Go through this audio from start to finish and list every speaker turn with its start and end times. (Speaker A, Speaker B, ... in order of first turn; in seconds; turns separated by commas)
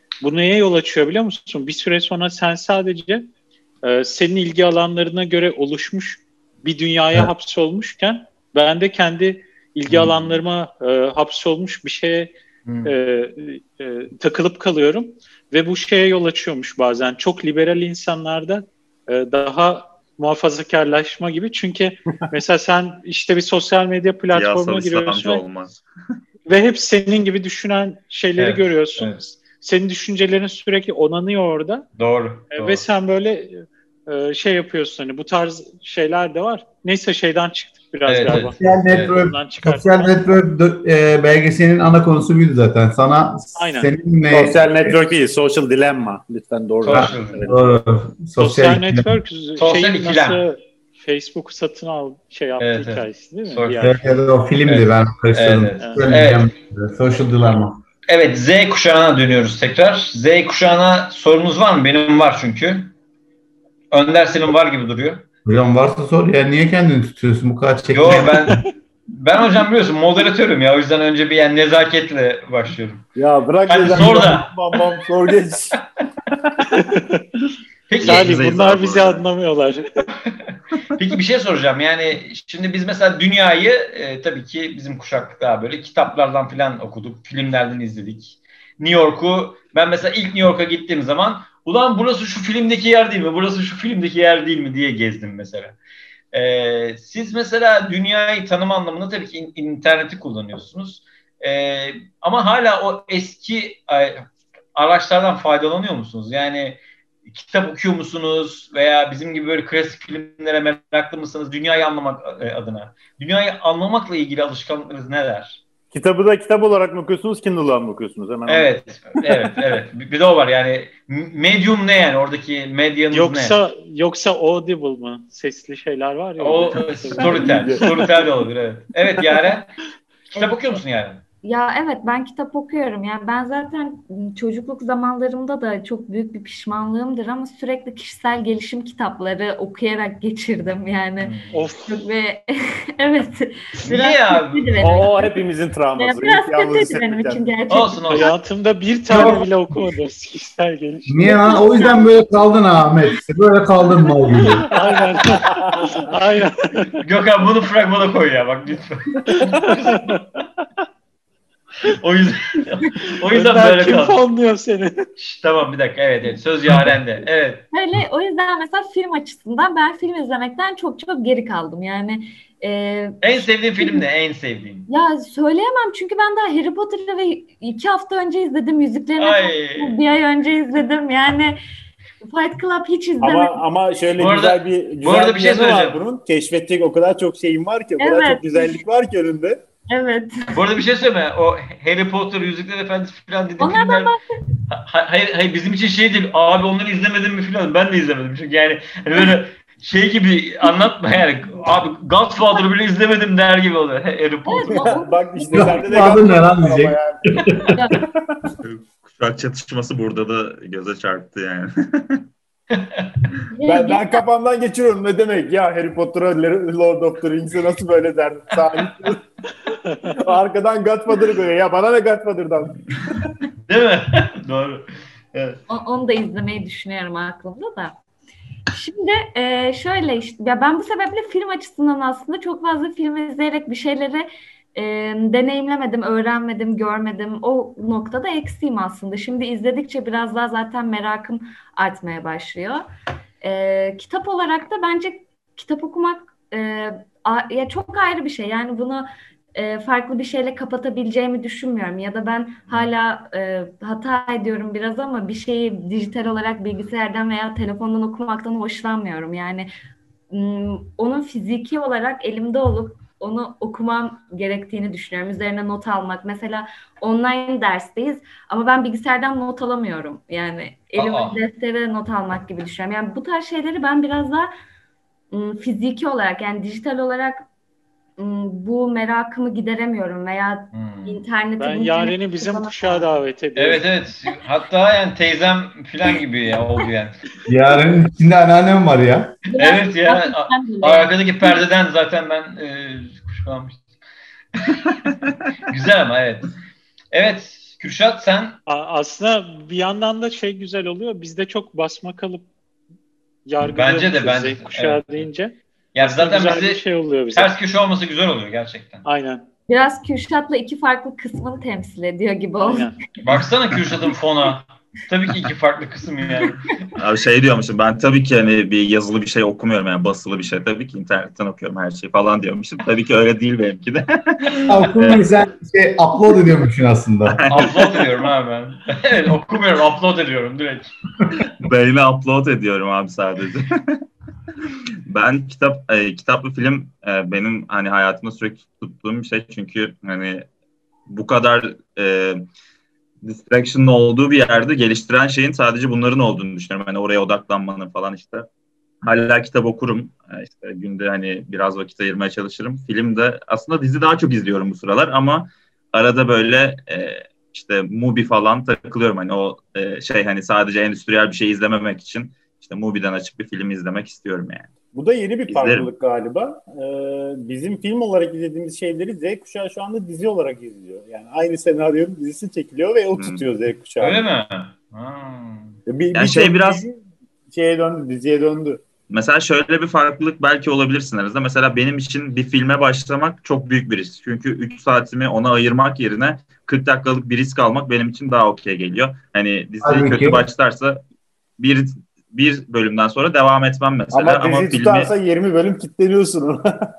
Speaker A: 0.2-3.2, Speaker A: 3.8-12.3, Speaker B: 9.9-10.4, Speaker B: 12.7-12.9, Speaker A: 12.8-25.4, Speaker C: 24.3-25.8, Speaker A: 26.4-31.9, Speaker B: 28.4-29.2, Speaker B: 32.0-32.8, Speaker A: 32.5-40.1, Speaker B: 38.1-39.1, Speaker D: 38.3-45.0, Speaker A: 43.5-43.9, Speaker E: 44.3-47.7, Speaker B: 46.8-47.5, Speaker D: 46.9-49.1, Speaker A: 48.4-53.7, Speaker B: 49.6-50.4, Speaker B: 52.6-53.9, Speaker D: 53.8-57.8, Speaker B: 54.6-56.5, Speaker A: 55.8-56.1, Speaker B: 58.1-62.9, Speaker B: 63.9-65.2, Speaker D: 65.4-68.6, Speaker B: 67.9-73.0, Speaker E: 73.2-75.8, Speaker B: 73.7-74.8, Speaker A: 76.7-80.1, Speaker B: 77.9-78.5, Speaker C: 78.0-79.2, Speaker B: 81.0-95.8, Speaker B: 96.3-115.6, Speaker E: 115.9-119.3, Speaker B: 118.5-123.6, Speaker A: 123.1-128.1, Speaker B: 126.4-129.7, Speaker E: 127.2-128.1, Speaker F: 130.3-130.8, Speaker B: 130.3-131.2, Speaker F: 131.4-145.4, Speaker B: 141.2-141.6, Speaker A: 141.5-142.0, Speaker B: 143.8-144.8, Speaker E: 144.8-147.5, Speaker F: 145.9-148.3, Speaker B: 147.7-148.3, Speaker A: 148.1-151.6, Speaker B: 149.1-149.4, Speaker D: 151.1-154.7, Speaker F: 151.2-152.2, Speaker A: 154.6-157.0, Speaker E: 154.7-156.0, Speaker B: 157.0-160.2, Speaker A: 159.3-160.2, Speaker B: 161.8-164.2, Speaker A: 163.3-165.1, Speaker B: 165.2-167.6, Speaker F: 167.7-174.0, Speaker B: 173.2-174.9, Speaker F: 174.9-181.6, Speaker B: 179.2-180.0, Speaker F: 182.2-183.6, Speaker E: 183.2-189.6, Speaker B: 184.2-186.0, Speaker F: 188.0-188.8, Speaker F: 189.9-190.6, Speaker B: 190.5-194.1, Speaker F: 193.6-194.2, Speaker B: 194.7-204.9, Speaker F: 204.5-205.9, Speaker E: 204.7-207.4, Speaker D: 205.5-207.9, Speaker F: 207.7-208.0, Speaker C: 208.6-212.3, Speaker B: 212.7-213.1, Speaker F: 213.5-214.2, Speaker E: 213.6-219.2, Speaker A: 219.8-220.2, Speaker E: 220.2-223.1, Speaker B: 223.7-225.6, Speaker F: 225.7-227.9, Speaker F: 228.7-242.8, Speaker F: 243.4-259.7, Speaker F: 260.3-274.5, Speaker B: 270.9-271.4, Speaker F: 275.3-277.4, Speaker F: 278.2-283.1, Speaker B: 280.7-281.2, Speaker A: 281.6-283.9, Speaker B: 283.6-287.2, Speaker D: 287.5-289.4, Speaker F: 289.5-291.6, Speaker B: 289.6-293.8, Speaker B: 295.7-296.5, Speaker B: 297.1-298.6, Speaker A: 298.7-302.5, Speaker A: 303.4-307.6, Speaker B: 303.7-305.2, Speaker B: 305.9-306.8, Speaker B: 307.3-309.0, Speaker A: 309.0-309.4, Speaker F: 309.7-312.9, Speaker A: 312.6-312.9, Speaker B: 313.2-316.9, Speaker C: 317.0-325.3, Speaker D: 324.7-327.4, Speaker C: 327.3-328.0, Speaker B: 327.4-330.9, Speaker C: 331.5-334.0, Speaker C: 334.6-340.5, Speaker C: 341.1-342.5, Speaker C: 343.2-348.5, Speaker C: 349.0-364.7, Speaker E: 364.9-374.2, Speaker C: 365.5-365.9, Speaker C: 373.1-373.4, Speaker B: 374.0-375.8, Speaker E: 375.9-377.0, Speaker C: 376.1-376.8, Speaker E: 377.5-378.8, Speaker C: 379.1-391.0, Speaker D: 389.8-390.4, Speaker C: 391.6-395.1, Speaker E: 394.1-396.9